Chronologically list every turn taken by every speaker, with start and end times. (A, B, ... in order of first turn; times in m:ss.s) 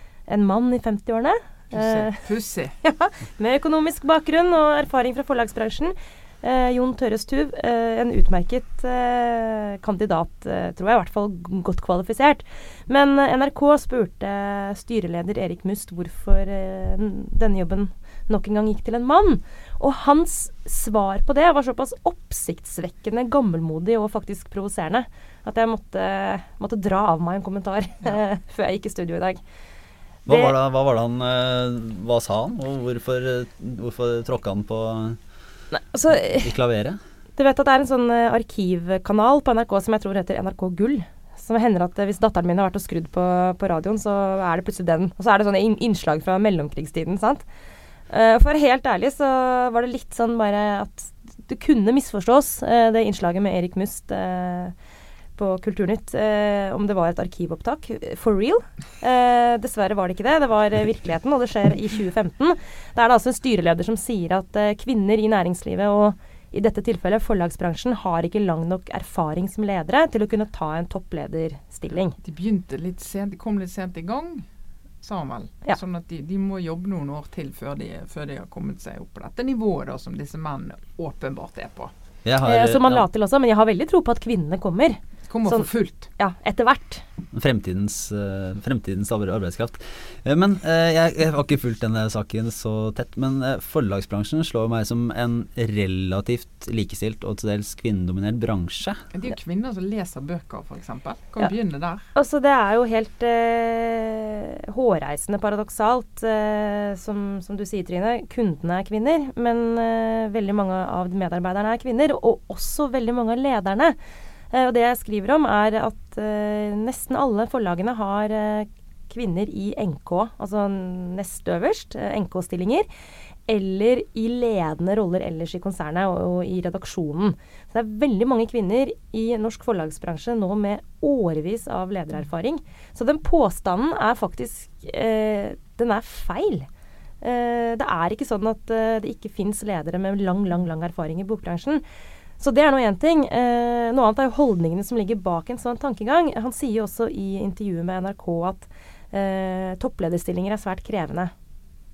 0:00.3-0:02.2 A
0:01.7-0:02.8 B
0:02.8-0:29.4 A
0:30.3-0:30.5 A
0:30.3-0:35.2 C
0:35.7-0:36.5 A
0:36.1-0:37.0 C
0:37.4-0:47.4 A
0:48.1-0:54.7 A
0:55.4-1:12.2 A
1:12.2-1:14.5 B
1:15.0-1:21.9 B
1:22.2-1:23.0 C
1:22.4-1:27.0 A
1:25.3-1:26.1 B
1:27.3-1:39.0 C
1:39.1-1:42.1 B
1:42.2-1:54.0 A
1:54.5-2:02.9 A
2:03.5-2:16.7 A
2:17.2-2:21.8 A
2:22.4-2:31.3 A